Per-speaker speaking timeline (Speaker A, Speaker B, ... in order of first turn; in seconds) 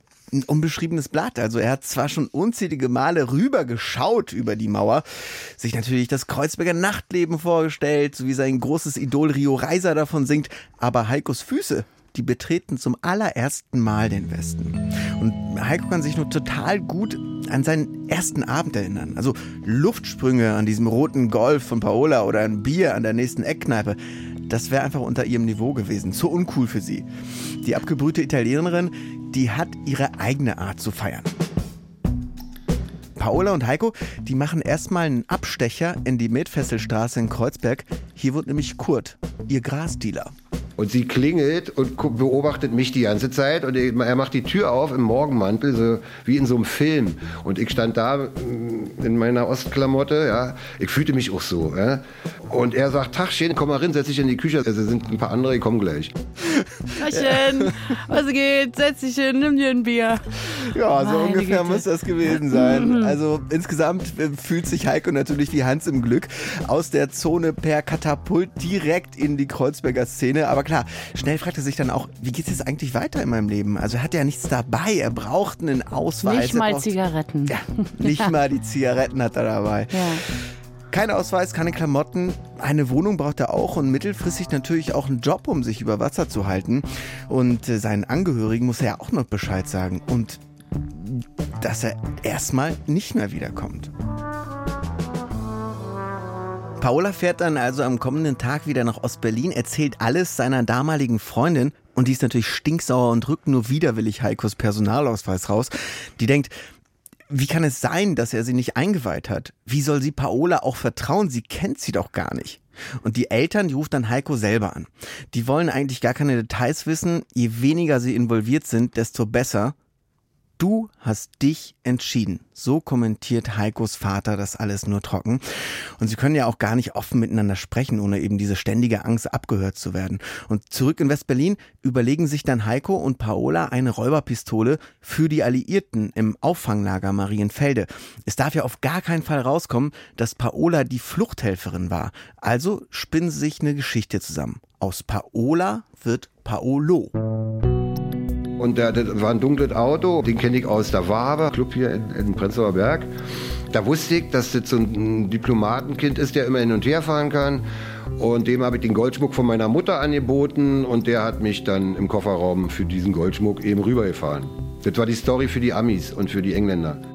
Speaker A: 0.3-31.4, 33.2-40.3, 57.1-57.7, 60.5-76.9, 77.5-93.9, 96.8-106.5, 107.3-119.8, 120.6-147.2
Speaker B: 40.8-56.2, 148.6-153.1, 153.7-157.7, 158.2-167.0
Speaker C: 56.9-63.1, 76.2-78.3, 79.9-80.2